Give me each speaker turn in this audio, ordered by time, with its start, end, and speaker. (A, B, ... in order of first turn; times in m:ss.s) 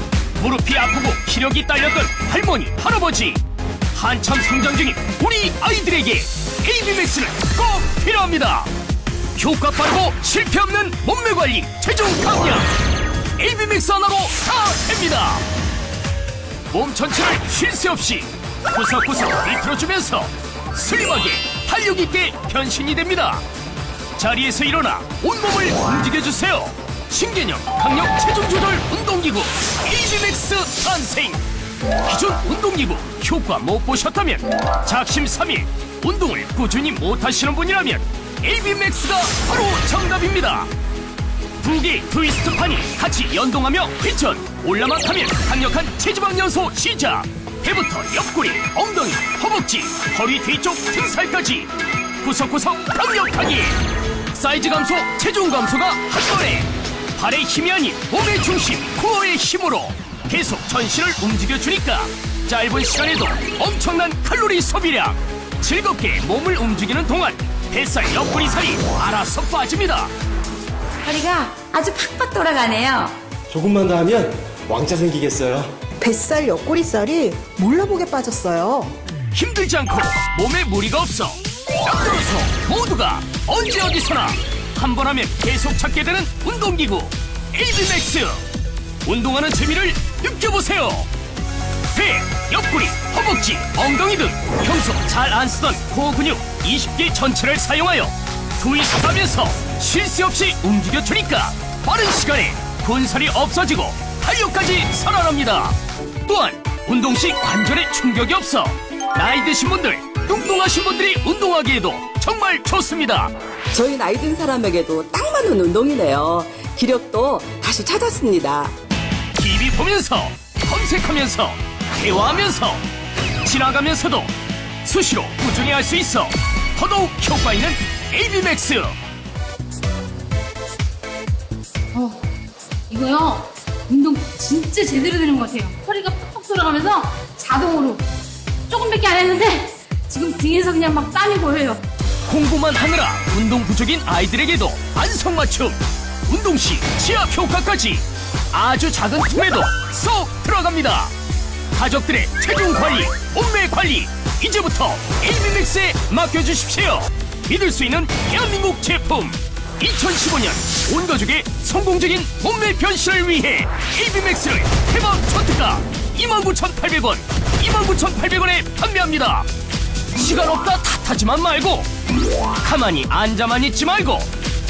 0:00.4-0:03.4 A
0:03.9-0:08.7 A
0:09.4-0:12.7 A
0:13.4-0:15.4 A
0:16.7-0:23.4 A
0:24.2-0:31.4 A
0:32.0-0:40.7 A
0:41.6-0:53.8 A
0:54.3-1:10.1 A
1:11.0-1:13.2 B
1:13.5-1:15.8 C
1:16.0-1:18.9 D
1:19.3-1:28.4 A
1:29.0-1:31.1 A
1:31.9-1:53.3 A
1:53.7-1:58.7 E
1:59.4-2:02.8 A
2:03.4-2:04.3 A
2:04.8-2:09.0 A
2:11.9-2:12.2 F
2:12.9-2:18.1 F
2:18.7-2:21.8 F
2:22.3-2:31.1 A
2:31.7-2:49.5 A
2:50.1-2:51.9 A
2:52.6-2:54.3 A